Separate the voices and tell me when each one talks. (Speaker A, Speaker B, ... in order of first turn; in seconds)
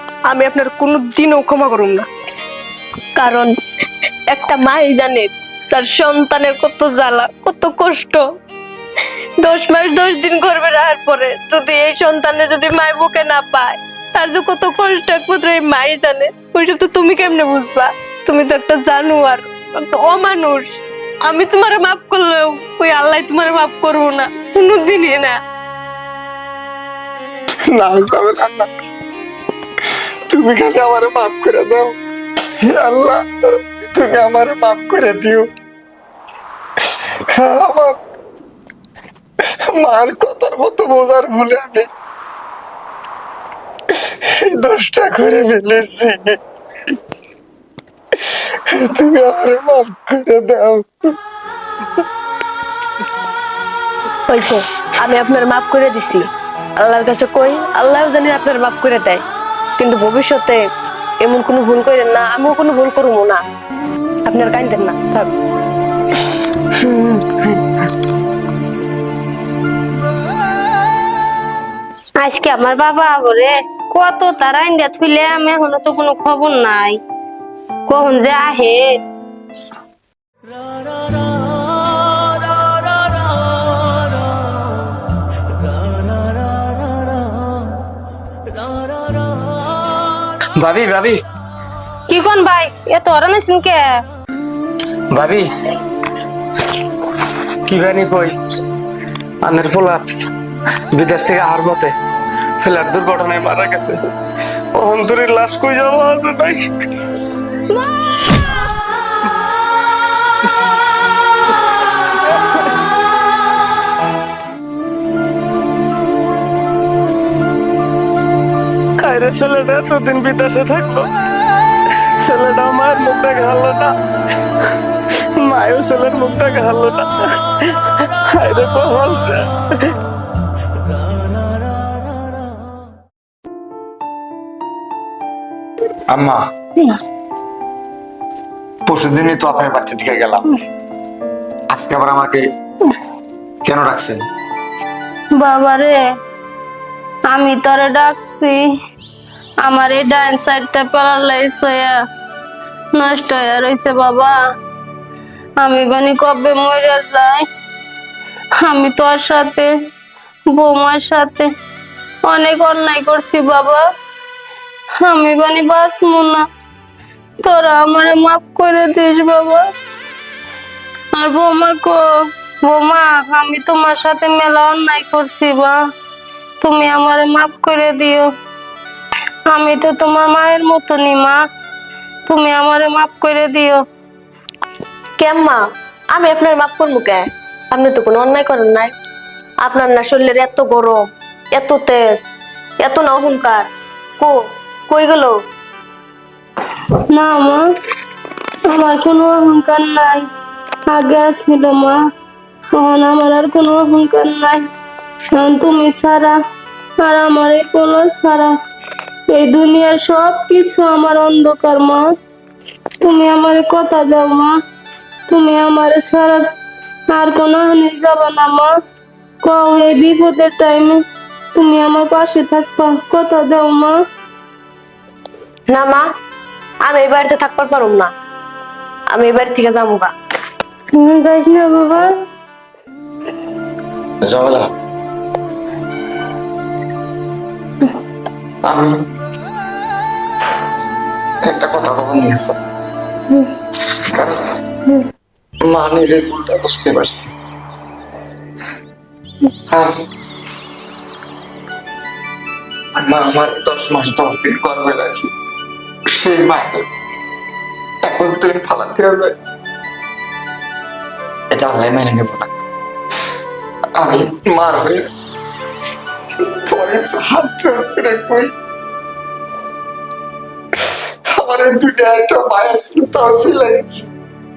Speaker A: 0.3-2.1, 3.2-3.5, 4.3-8.2, 9.4-25.4, 54.3-56.2, 56.8-59.2, 59.8-60.6, 61.2-63.4, 64.2-65.3, 185.2-188.9, 189.6-192.3, 192.8-194.4, 194.9-195.4, 225.7-226.1, 226.8-228.1, 229.1-230.1
Speaker B: 27.7-28.7, 29.9-31.9, 32.6-35.5, 37.3-38.0, 39.6-41.9, 44.0-46.4, 48.3-51.1, 136.1-136.4, 138.8-140.4, 141.7-142.4, 143.6-144.2, 234.2-234.7, 238.6-238.9, 241.4-242.6, 244.1-244.4, 245.6-247.3, 253.0-255.3, 256.1-256.9, 258.0-259.4, 261.5-262.5, 263.9-265.1, 266.5-268.5, 271.3-274.1
Speaker C: 72.2-77.0, 77.9-78.9, 92.1-94.0, 145.3-146.0, 147.3-148.6, 149.6-151.9, 152.9-154.4, 155.6-157.4, 158.6-159.7, 160.5-161.5, 162.3-163.8, 165.0-166.4, 167.4-169.7, 171.1-172.0, 172.6-175.8, 176.6-178.3, 179.5-181.4, 182.2-183.8, 197.1-197.6, 198.7-200.3, 200.9-202.0, 202.7-204.7, 205.3-206.3, 207.0-208.5, 209.3-212.1, 213.0-214.6, 215.3-216.5, 217.1-218.7, 219.4-221.0, 221.5-224.0, 230.9-232.1
Speaker D: 90.5-91.2, 95.1-95.6, 97.6-98.4, 99.4-100.2, 100.9-101.9, 102.6-104.0, 104.7-106.8, 119.0-121.1, 122.2-123.9, 125.3-127.4, 128.3-129.5